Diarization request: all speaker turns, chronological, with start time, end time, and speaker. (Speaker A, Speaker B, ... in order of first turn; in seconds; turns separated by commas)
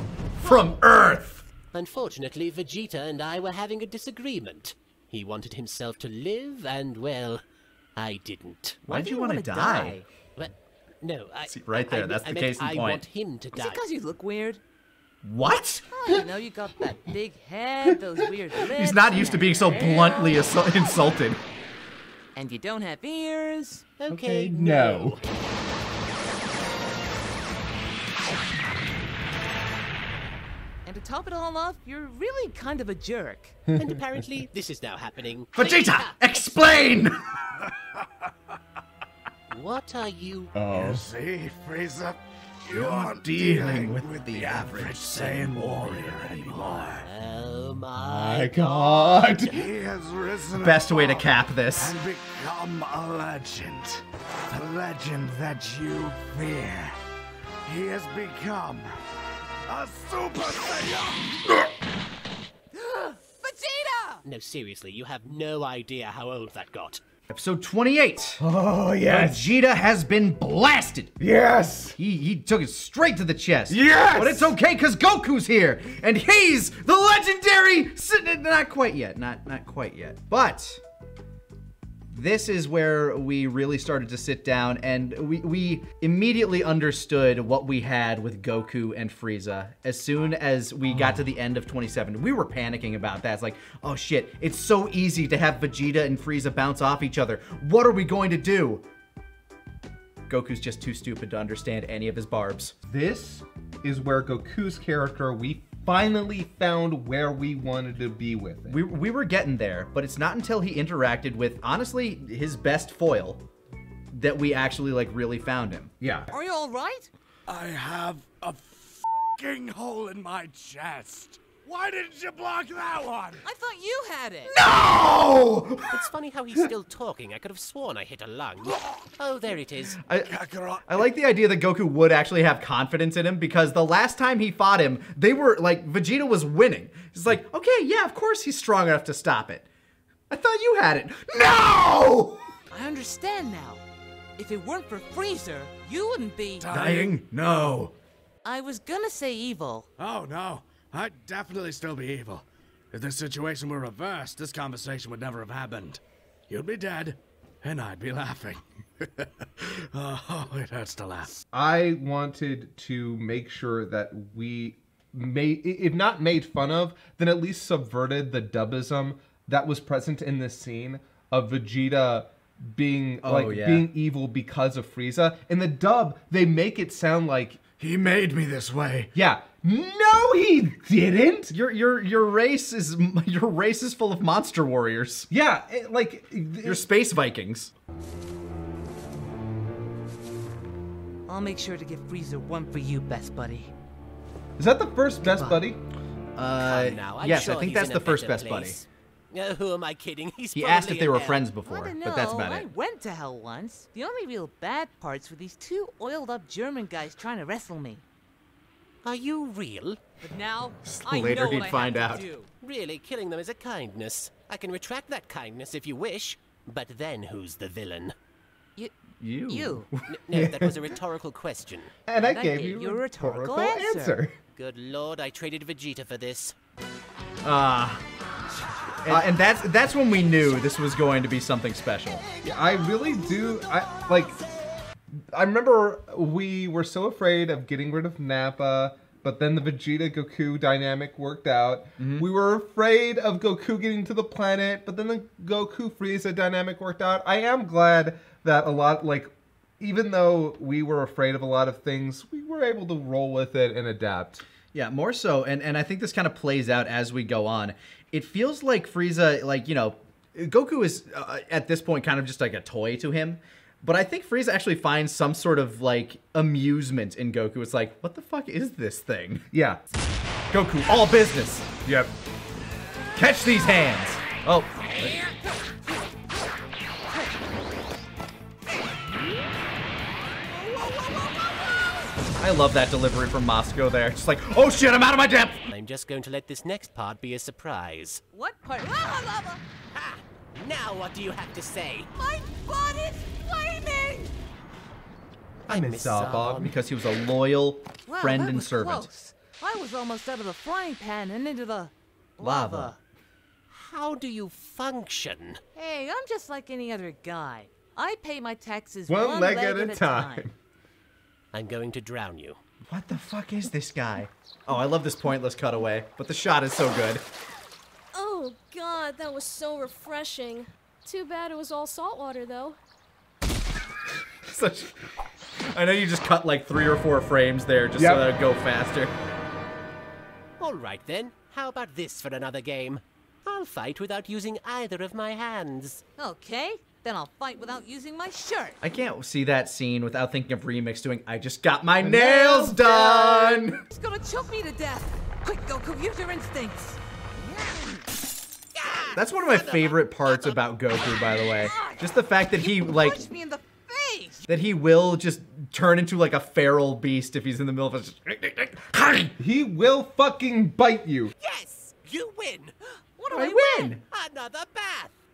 Speaker A: 0.4-1.4, Speaker B: 1.7-7.4, Speaker B: 8.0-8.8, Speaker A: 8.8-9.9, Speaker C: 8.9-10.1, Speaker B: 10.3-13.8, Speaker A: 11.5-13.0, Speaker C: 13.5-14.6, Speaker A: 15.2-15.8, Speaker C: 15.9-20.3, Speaker A: 18.7-21.4, Speaker C: 22.3-23.8, Speaker B: 24.0-25.2, Speaker D: 24.1-25.2, Speaker C: 30.8-33.5, Speaker D: 33.7-34.0, Speaker B: 33.8-36.5, Speaker A: 35.5-37.2, Speaker B: 39.5-40.5, Speaker D: 40.5-41.0, Speaker E: 40.7-47.0, Speaker A: 42.7-46.2, Speaker B: 46.5-49.4, Speaker D: 48.0-49.6, Speaker E: 49.4-57.0, Speaker A: 50.6-52.0, Speaker E: 57.6-58.9, Speaker E: 59.6-61.4, Speaker C: 62.7-64.2, Speaker B: 64.2-67.0, Speaker A: 67.3-68.4, Speaker D: 68.4-69.5, Speaker A: 69.0-71.2, Speaker D: 71.2-72.0, Speaker A: 72.0-80.8, Speaker D: 73.7-74.5, Speaker A: 82.1-98.8, Speaker A: 100.3-102.7, Speaker D: 102.9-108.8, Speaker A: 108.7-113.4, Speaker A: 114.1-115.9, Speaker D: 116.0-116.3, Speaker C: 116.3-117.1, Speaker E: 117.5-123.4, Speaker C: 123.4-124.5, Speaker D: 124.6-126.1, Speaker B: 125.9-130.0, Speaker E: 128.7-129.0, Speaker A: 130.0-139.7, Speaker E: 130.2-131.0, Speaker A: 140.3-142.4, Speaker C: 142.7-143.8, Speaker C: 144.4-146.7, Speaker E: 146.6-147.4, Speaker A: 146.7-147.9, Speaker C: 148.4-149.9, Speaker E: 150.0-161.4, Speaker D: 161.5-177.6, Speaker A: 173.2-173.9, Speaker E: 177.8-179.1, Speaker D: 179.1-181.5, Speaker A: 181.5-185.3, Speaker D: 185.3-186.9, Speaker A: 186.6-187.7, Speaker C: 191.3-193.7, Speaker D: 194.6-195.8, Speaker C: 195.2-195.6, Speaker A: 196.3-198.8, Speaker B: 196.6-201.5, Speaker A: 200.5-202.7, Speaker C: 201.7-208.0, Speaker B: 209.0-210.0, Speaker C: 210.2-212.5, Speaker A: 210.9-212.2, Speaker B: 212.6-218.1, Speaker A: 219.2-220.0, Speaker C: 219.5-219.9, Speaker B: 220.1-221.9, Speaker D: 220.3-220.7, Speaker D: 222.1-224.3, Speaker C: 222.2-224.2, Speaker B: 224.5-226.5, Speaker A: 227.4-228.0, Speaker A: 229.0-232.3, Speaker D: 232.4-234.4, Speaker D: 235.3-254.4, Speaker A: 242.0-242.3, Speaker A: 254.7-269.5, Speaker D: 269.5-269.8, Speaker A: 270.5-271.7, Speaker D: 271.8-272.1, Speaker A: 273.1-275.2, Speaker C: 280.5-282.0, Speaker A: 282.4-285.6, Speaker B: 285.7-288.2, Speaker C: 288.3-289.6, Speaker B: 289.9-292.1, Speaker C: 292.1-294.3, Speaker B: 295.6-296.7, Speaker D: 295.7-296.7, Speaker A: 296.6-299.1, Speaker C: 298.1-303.0, Speaker A: 302.4-302.9, Speaker B: 303.7-305.6, Speaker C: 305.7-310.4, Speaker D: 309.1-310.5, Speaker B: 311.5-312.6, Speaker A: 312.9-317.2, Speaker F: 318.1-322.8, Speaker A: 324.5-324.9, Speaker A: 325.7-329.1, Speaker D: 328.0-328.3, Speaker B: 330.6-336.0, Speaker C: 336.2-338.8, Speaker A: 338.8-343.8, Speaker D: 342.0-343.6, Speaker C: 343.9-347.0, Speaker B: 348.8-350.5, Speaker A: 349.1-353.2, Speaker C: 352.6-354.4, Speaker A: 354.5-359.3, Speaker D: 359.4-361.3, Speaker B: 361.4-362.7, Speaker C: 363.2-363.9, Speaker A: 363.3-364.0, Speaker B: 364.0-365.1